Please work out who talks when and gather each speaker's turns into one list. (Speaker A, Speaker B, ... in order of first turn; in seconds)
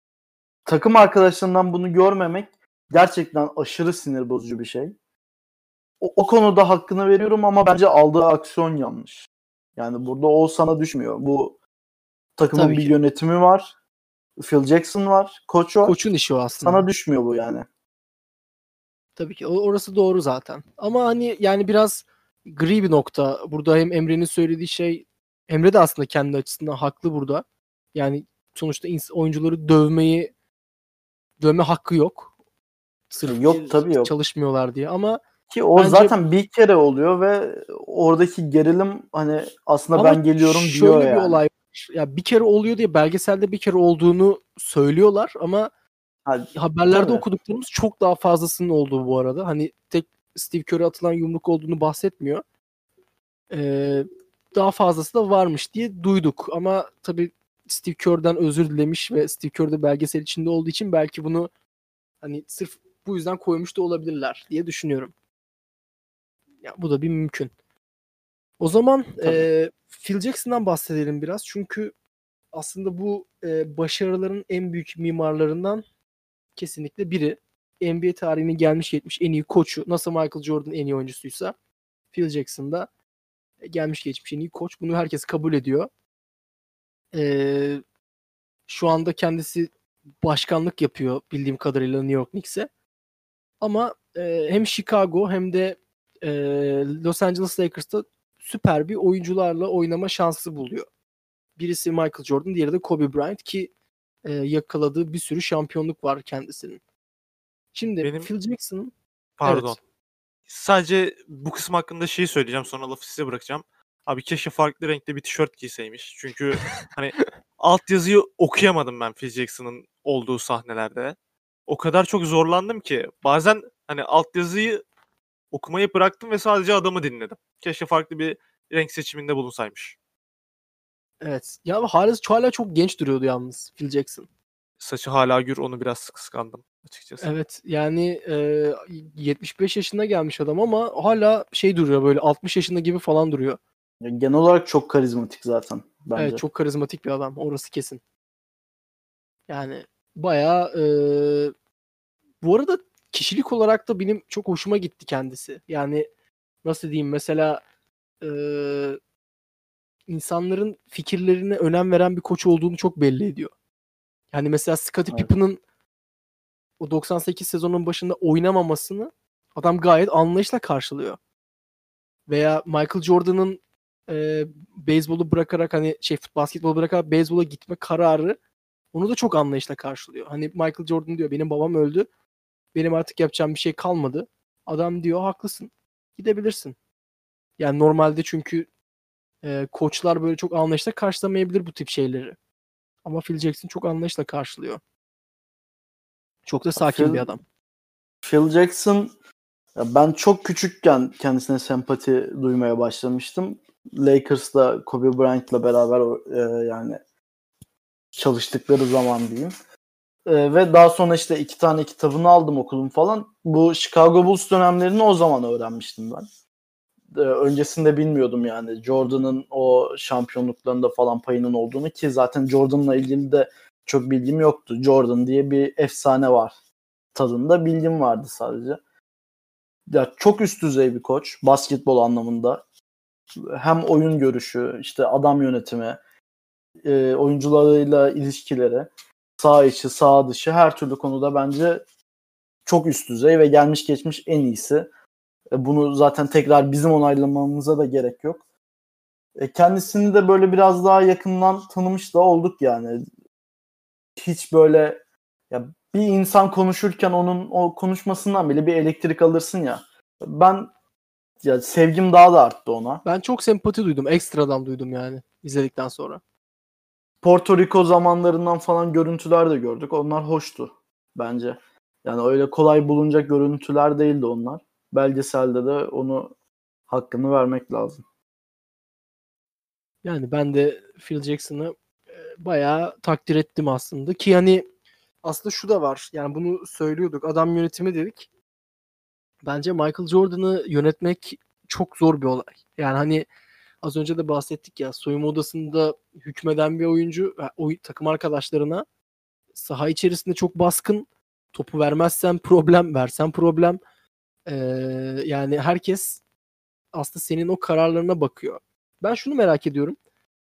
Speaker A: 0.7-4.9, 6.0-11.6, 12.4-13.7, 14.4-16.0, 16.6-17.6, 33.3-34.1, 35.5-41.4, 46.2-47.2, 69.2-69.5, 144.0-146.4, 196.8-197.2, 198.2-199.1, 199.8-207.0, 208.1-209.5, 210.2-216.2, 217.1-226.6, 227.1-228.8, 229.9-232.6, 233.5-236.0, 236.8-241.8, 242.7-244.9, 245.5-248.4, 249.3-253.0, 254.2-255.0, 255.5-260.7, 261.4-263.0, 267.2-276.3, 276.9-278.0
Speaker B: 12.5-12.9, 15.8-16.9, 19.2-30.3, 31.4-32.3, 33.1-35.2, 35.8-36.1, 39.9-45.7, 46.5-52.4, 53.5-61.5, 62.2-65.1, 66.6-67.5, 68.6-71.9, 72.5-75.8, 76.5-81.5, 82.1-82.9, 83.6-85.9, 87.1-87.8, 88.7-89.7, 90.2-92.7, 93.6-100.8, 101.6-103.7, 104.2-106.8, 107.7-108.9, 109.4-109.8, 131.2-134.2, 137.2-143.6, 146.1-148.0, 149.5-151.5, 152.4-156.1, 156.6-157.6, 158.2-159.0, 160.1-163.5, 164.3-165.6, 166.8-171.2, 172.3-178.4, 178.9-182.1, 182.7-186.7, 187.6-188.7, 189.4-192.4, 193.0-194.8, 196.5-197.4, 263.0-266.2, 280.0-284.6, 285.2-288.3, 289.4-293.3, 293.8-298.8, 299.5-303.8, 304.4-306.2, 306.9-310.0
Speaker C: 108.0-108.3, 109.4-109.8, 110.5-121.2, 121.7-124.8, 125.5-130.0, 134.8-137.3